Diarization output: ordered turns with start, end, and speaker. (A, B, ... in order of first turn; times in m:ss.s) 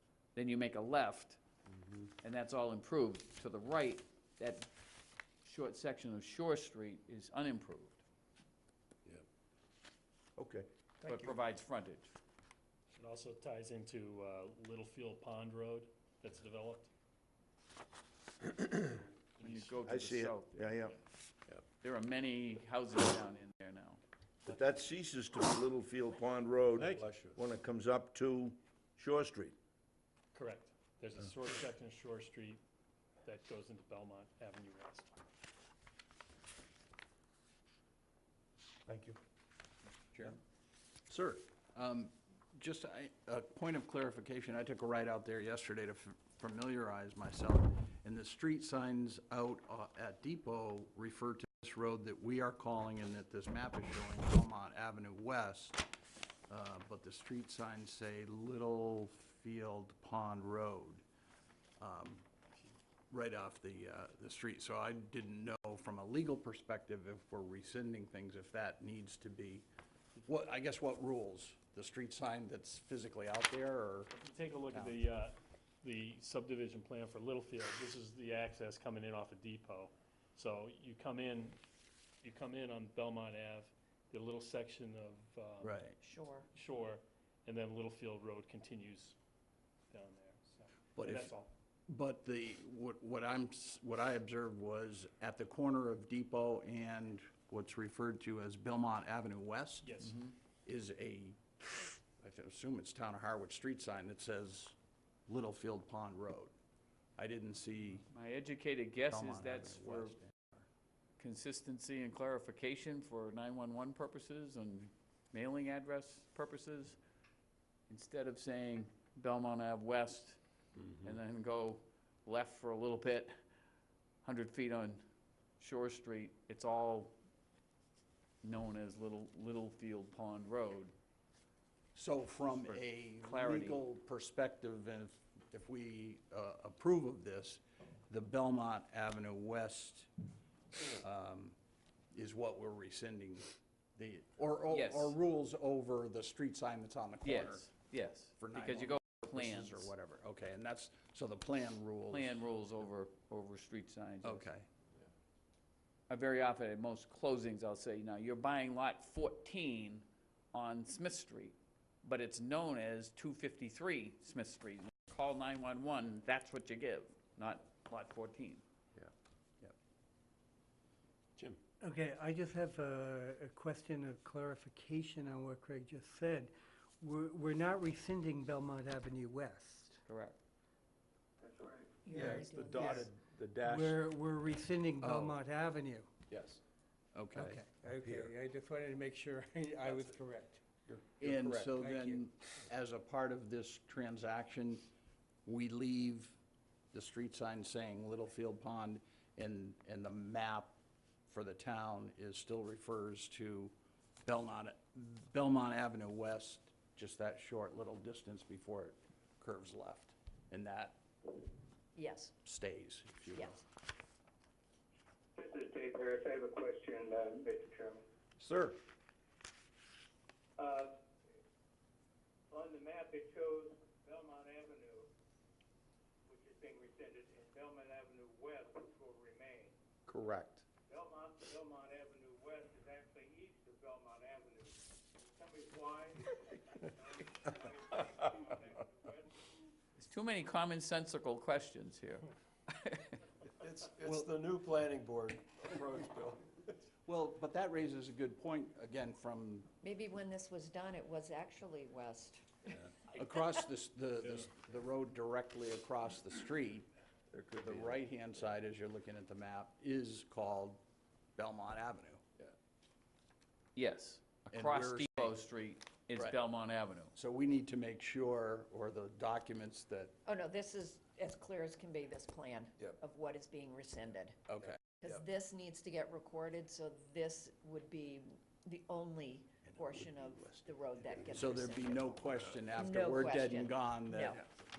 0:00.3-0:01.4 A
0:02.2-0:04.7 A
0:05.4-0:08.0 A
0:10.4-0:10.7 B
0:11.0-0:11.3 C
0:11.0-0:12.1 A
0:12.9-0:16.9 D
0:19.4-0:20.8 A
0:19.8-0:21.0 B
0:21.8-0:24.0 A
0:24.4-0:29.6 B
0:26.8-0:27.4 C
0:30.3-0:32.6 D
0:33.2-0:35.1 D
0:41.7-0:55.8 E
0:56.5-1:01.0 E
1:01.8-1:02.2 E
1:03.1-1:09.6 E
1:10.2-1:14.1 E
1:14.1-1:21.6 D
1:22.2-1:25.8 D
1:25.6-1:26.0 E
1:26.0-1:26.5 F
1:26.5-1:29.2 D
1:29.9-1:31.5 D
1:31.0-1:31.3 E
1:31.9-1:39.9 E
1:39.8-1:40.2 D
1:40.0-1:40.3 A
1:40.6-1:44.8 E
1:45.3-1:46.5 E
1:47.2-1:48.0 E
1:48.1-1:50.2 A
1:49.1-1:50.7 E
1:51.2-1:57.0 A
1:57.9-2:00.4 A
2:00.9-2:03.3 A
2:04.2-2:05.0 A
2:05.6-2:07.1 A
2:08.4-2:10.9 A
2:11.9-2:20.1 E
2:12.5-2:13.8 A
2:20.9-2:21.6 E
2:22.1-2:27.7 E
2:24.7-2:25.2 A
2:27.2-2:29.9 A
2:28.4-2:32.4 E
2:32.1-2:34.5 A
2:34.2-2:34.7 E
2:36.1-2:48.6 A
2:51.8-3:00.0 G
3:00.1-3:00.4 A
3:01.4-3:02.0 H
3:02.0-3:03.1 F
3:02.1-3:04.0 C
3:03.6-3:06.1 G
3:05.0-3:05.4 E
3:06.3-3:06.6 C
3:07.1-3:07.6 E
3:07.3-3:10.6 G
3:09.9-3:10.1 C
3:10.9-3:11.7 C
3:11.2-3:14.8 E
3:11.7-3:12.3 G
3:15.4-3:16.4 E
3:16.9-3:23.7 E
3:24.2-3:31.0 E
3:31.9-3:32.3 F
3:32.4-3:33.5 E
3:33.3-3:33.6 F
3:35.4-3:38.0 H
3:38.4-3:38.7 C
3:40.6-3:41.0 H
3:42.5-3:45.1 H
3:46.3-3:49.8 H
3:50.8-3:59.4 H
4:00.0-4:03.2 A
4:03.6-4:06.7 C
4:07.0-4:09.7 E
4:09.8-4:12.6 F
4:13.1-4:16.9 E
4:17.3-4:18.0 C
4:17.6-4:20.8 E
4:21.4-4:22.2 E
4:23.7-4:27.1 A
4:24.5-4:25.4 E
4:27.1-4:30.1 E
4:30.2-4:44.4 F
4:34.5-4:34.8 E
4:34.6-4:35.2 C
4:41.0-4:41.7 C
4:41.3-4:44.4 E
4:42.2-4:42.7 C
4:44.3-4:44.6 C